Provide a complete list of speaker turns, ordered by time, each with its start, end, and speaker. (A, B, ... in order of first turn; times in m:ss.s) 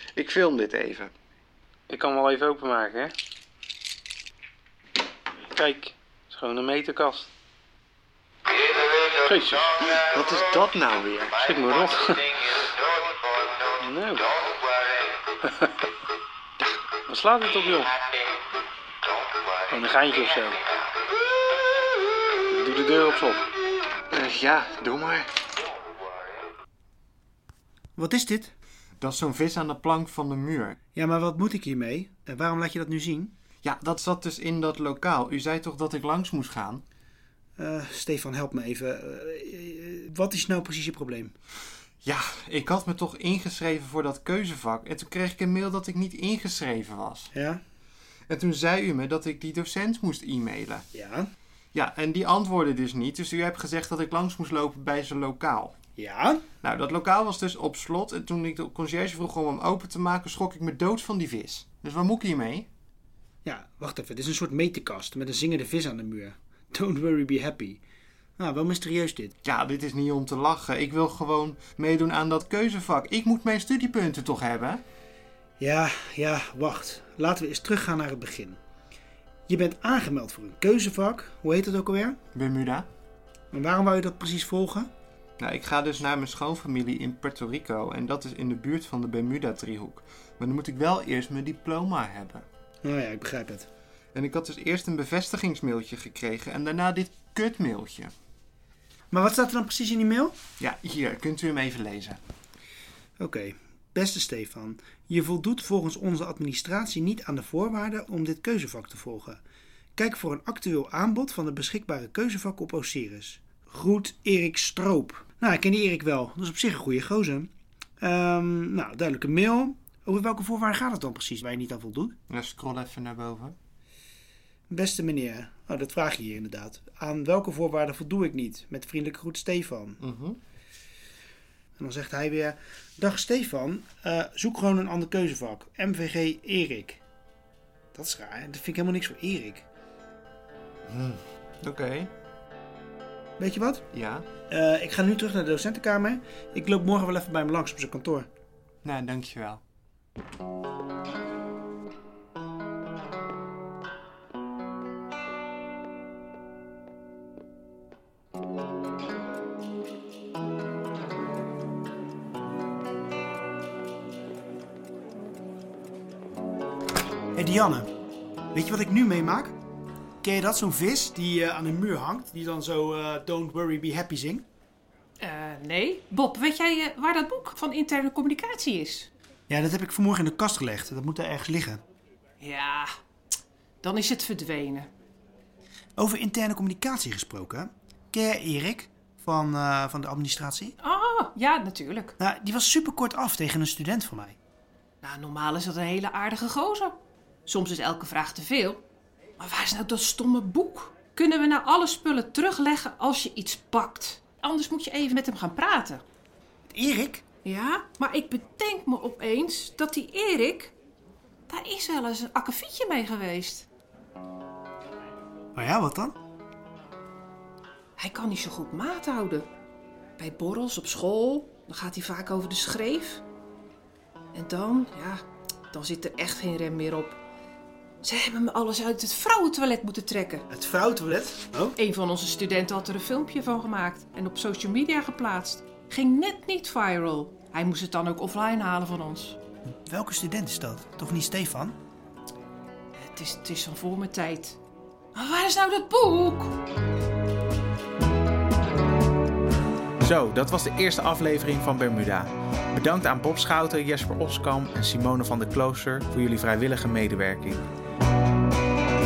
0:00.2-0:01.1 A
0:01.9-0:03.1 B
0:05.5-0:07.3 B
0:09.2-0:09.8 B
0:09.9-0:11.5 A
0:11.4-0:12.3 B
0:13.8-0:14.3 B
0:17.1-0:17.9 B
0:19.7-0:20.6 B
0:22.5-0:23.4 B
0:24.1-0:25.3 A
0:28.0-0:28.5 C
0:29.0-0:30.8 A
0:31.0-0:33.3 C
0:33.6-0:36.8 A
0:37.6-0:41.3 C
0:42.0-0:47.3 A
0:47.3-0:47.6 C
0:48.3-0:50.8 A
0:50.9-0:51.3 C
0:51.7-0:55.8 A
0:56.0-0:56.4 C
0:56.6-1:02.7 A
1:03.4-1:07.8 C
1:08.4-1:09.3 C
1:09.4-1:14.8 A
1:15.6-1:18.6 C
1:19.5-1:22.2 C
1:22.3-1:22.9 A
1:23.5-1:24.9 C
1:25.4-1:32.4 A
1:32.8-1:33.7 C
1:34.1-1:38.1 A
1:39.1-1:40.4 C
1:40.6-1:42.2 A
1:43.2-1:49.4 C
1:50.0-2:02.2 C
2:02.3-2:03.6 A
2:04.7-2:10.0 C
2:10.0-2:10.4 A
2:11.8-2:17.0 C
2:17.9-2:19.7 C
2:20.9-2:22.1 A
2:23.4-2:23.8 C
2:23.9-2:24.3 A
2:24.5-2:28.3 C
2:28.8-2:29.6 A
2:47.4-2:47.9 C
2:48.5-2:49.6 C
2:50.2-2:54.5 C
2:55.2-2:59.1 D
2:59.5-3:01.8 C
3:02.4-3:02.9 D
3:03.8-3:04.9 D
3:06.0-3:10.8 C
3:10.8-3:12.2 D
3:12.2-3:14.4 C
3:15.0-3:18.8 D
3:19.4-3:26.0 D
3:26.7-3:27.2 C
3:27.4-3:30.7 D
3:31.5-3:33.7 D
3:35.6-3:36.2 C
3:38.0-3:39.5 D
3:40.2-3:43.2 D
3:44.3-3:47.2 D
3:48.0-3:50.5 D
3:50.5-3:51.8 C
3:51.8-3:59.4 D
3:59.9-4:01.8 C
4:03.0-4:04.6 D
4:05.1-4:06.6 D
4:10.0-4:17.6 E